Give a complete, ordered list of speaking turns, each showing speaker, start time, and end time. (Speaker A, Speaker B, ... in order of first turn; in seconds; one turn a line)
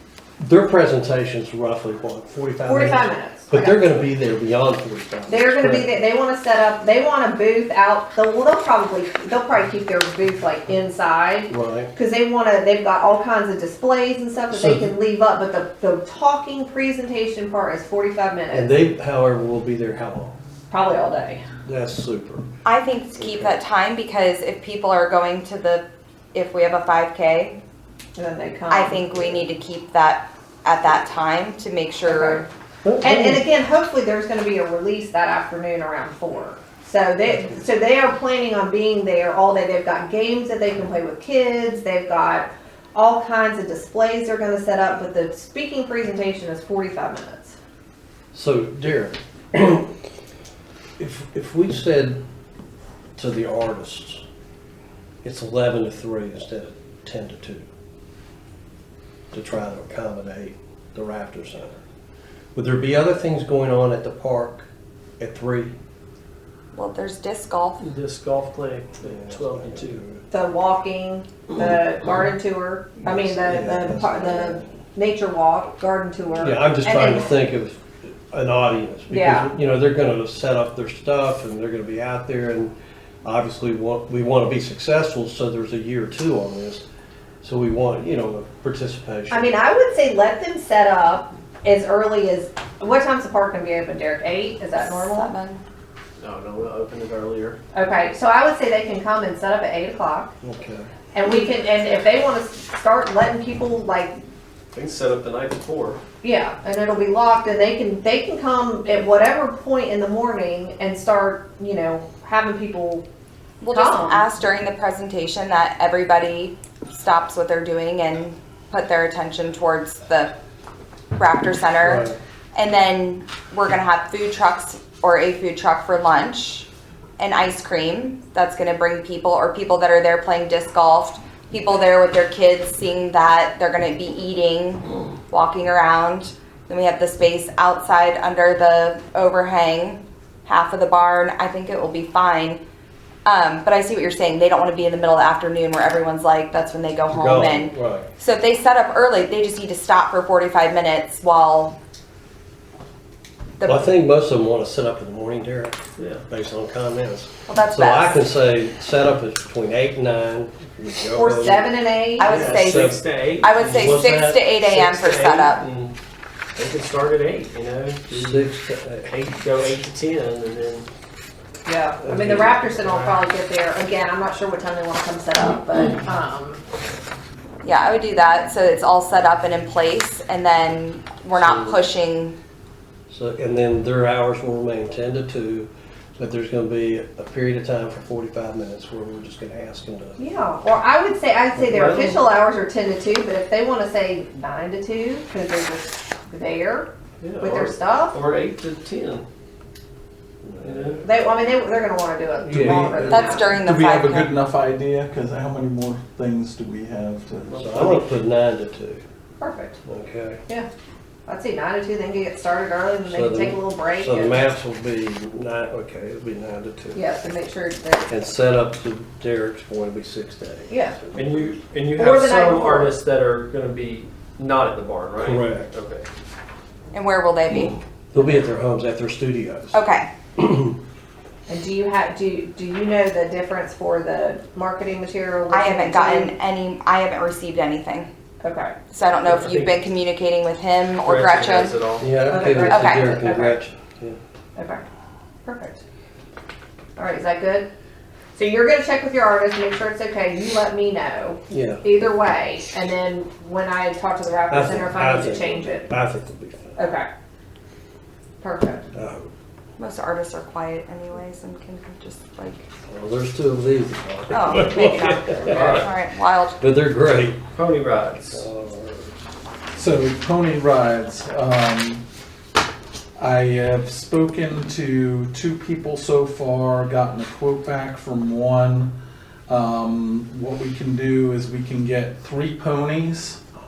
Speaker A: 0.4-6.0
Speaker B: 2.6-3.9
Speaker B: 5.3-18.7
Speaker A: 11.5-11.9
Speaker A: 14.5-14.9
Speaker A: 18.5-20.4
Speaker B: 20.7-21.4
Speaker A: 21.6-22.5
Speaker C: 22.6-27.6
Speaker A: 23.2-23.5
Speaker B: 28.2-29.4
Speaker C: 28.7-32.5
Speaker B: 32.1-32.5
Speaker A: 32.8-33.4
Speaker B: 33.0-47.6
Speaker A: 48.3-49.9
Speaker A: 51.0-52.2
Speaker A: 53.2-54.2
Speaker A: 55.2-57.7
Speaker A: 59.3-61.8
Speaker A: 62.5-64.7
Speaker A: 65.2-65.8
Speaker C: 66.7-67.9
Speaker D: 67.8-70.0
Speaker A: 69.1-70.2
Speaker B: 70.3-77.4
Speaker A: 73.0-74.6
Speaker A: 76.4-86.8
Speaker B: 79.1-79.5
Speaker A: 87.4-89.5
Speaker B: 89.3-95.3
Speaker C: 94.8-95.6
Speaker D: 96.2-97.6
Speaker B: 97.7-100.3
Speaker A: 100.4-100.9
Speaker B: 101.1-104.2
Speaker D: 104.7-106.0
Speaker B: 106.2-113.1
Speaker C: 113.6-120.3
Speaker B: 113.7-114.2
Speaker C: 121.2-126.7
Speaker A: 121.8-122.2
Speaker C: 127.2-142.6
Speaker C: 143.3-151.8
Speaker A: 147.1-148.1
Speaker C: 153.6-153.9
Speaker A: 153.6-161.7
Speaker C: 157.5-158.3
Speaker B: 161.1-162.3
Speaker C: 162.2-165.6
Speaker A: 162.2-163.0
Speaker D: 162.3-165.9
Speaker A: 163.7-164.0
Speaker D: 166.6-168.5
Speaker A: 168.1-169.1
Speaker D: 169.1-170.9
Speaker B: 171.7-176.6
Speaker A: 172.1-172.4
Speaker D: 172.1-173.2
Speaker C: 177.6-182.4
Speaker A: 181.4-181.8
Speaker A: 183.1-190.2
Speaker B: 190.2-198.2
Speaker D: 191.6-192.2
Speaker D: 197.2-199.3
Speaker A: 200.4-201.2
Speaker D: 200.6-201.1
Speaker B: 201.0-203.6
Speaker E: 202.5-208.0
Speaker A: 202.5-202.8
Speaker C: 203.1-204.3
Speaker D: 207.5-208.1
Speaker A: 207.6-209.0
Speaker B: 209.4-209.8
Speaker A: 209.8-210.4
Speaker B: 211.3-214.5
Speaker A: 213.1-217.0
Speaker B: 216.9-218.1
Speaker A: 218.1-220.7
Speaker B: 220.7-221.0
Speaker D: 221.2-226.1
Speaker B: 222.0-223.0
Speaker A: 225.2-225.7
Speaker C: 226.9-227.8
Speaker A: 228.1-229.8
Speaker C: 229.7-230.1
Speaker A: 230.4-230.8
Speaker B: 231.5-236.3
Speaker C: 235.5-238.1
Speaker B: 238.4-238.8
Speaker C: 238.9-241.8
Speaker D: 239.2-239.8
Speaker D: 241.1-242.1
Speaker A: 242.0-244.2
Speaker B: 242.3-243.6
Speaker C: 242.7-243.2
Speaker B: 244.6-244.8
Speaker B: 245.4-245.8
Speaker B: 247.0-247.7
Speaker B: 248.3-255.9
Speaker A: 251.5-251.8
Speaker A: 254.5-256.9
Speaker B: 256.8-257.1
Speaker B: 258.4-258.9
Speaker A: 258.9-259.3
Speaker C: 259.8-262.7
Speaker A: 262.9-265.5
Speaker C: 264.3-266.6
Speaker B: 264.5-265.8
Speaker D: 265.5-265.9
Speaker A: 266.6-267.4
Speaker D: 267.5-268.4
Speaker A: 268.3-269.1
Speaker E: 269.8-272.0
Speaker E: 273.2-278.9
Speaker E: 279.5-283.4